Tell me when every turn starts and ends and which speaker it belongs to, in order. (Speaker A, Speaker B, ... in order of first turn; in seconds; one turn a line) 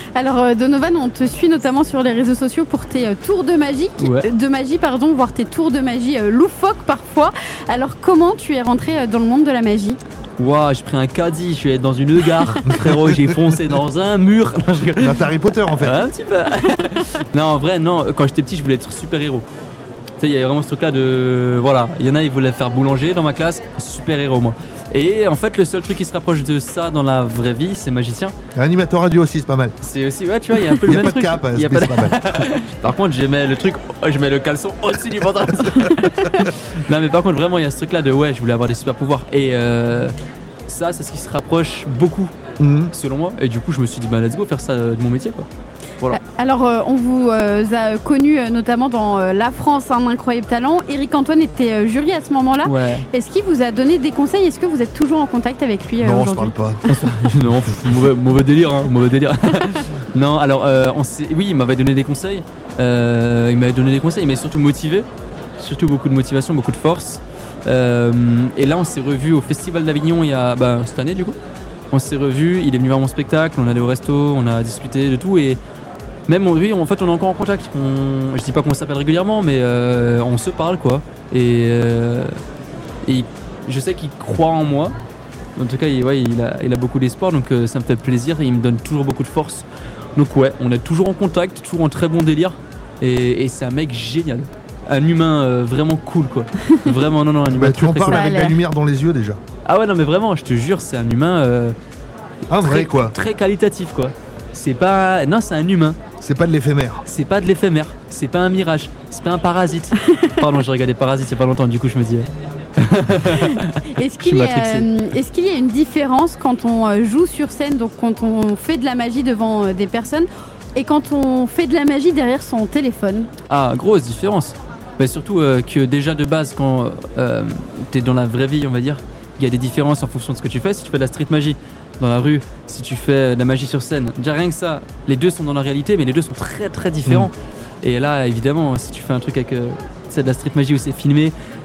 Speaker A: 0.1-10.0
Speaker B: 4.0-4.3
Speaker B: 10.4-15.2
Speaker C: 12.7-13.7
Speaker C: 15.0-16.0
Speaker B: 15.8-19.5
Speaker B: 20.2-28.4
Speaker C: 28.6-29.8
Speaker B: 29.8-40.1
Speaker C: 30.7-32.2
Speaker C: 35.6-36.4
Speaker B: 40.7-42.3
Speaker C: 42.6-42.9
Speaker B: 42.9-45.5
Speaker A: 46.1-57.0
Speaker B: 52.6-53.0
Speaker C: 56.0-56.8
Speaker B: 56.9-65.1
Speaker B: 65.6-71.4
Speaker B: 71.9-75.6
Speaker B: 76.3-82.3
Speaker B: 83.0-84.9
Speaker B: 85.6-98.3
Speaker C: 97.5-99.4
Speaker A: 98.1-98.6
Speaker B: 99.7-101.8
Speaker C: 102.5-103.2
Speaker B: 102.6-106.0
Speaker C: 106.2-107.0
Speaker B: 107.1-114.9
Speaker A: 114.0-123.3
Speaker B: 123.5-141.3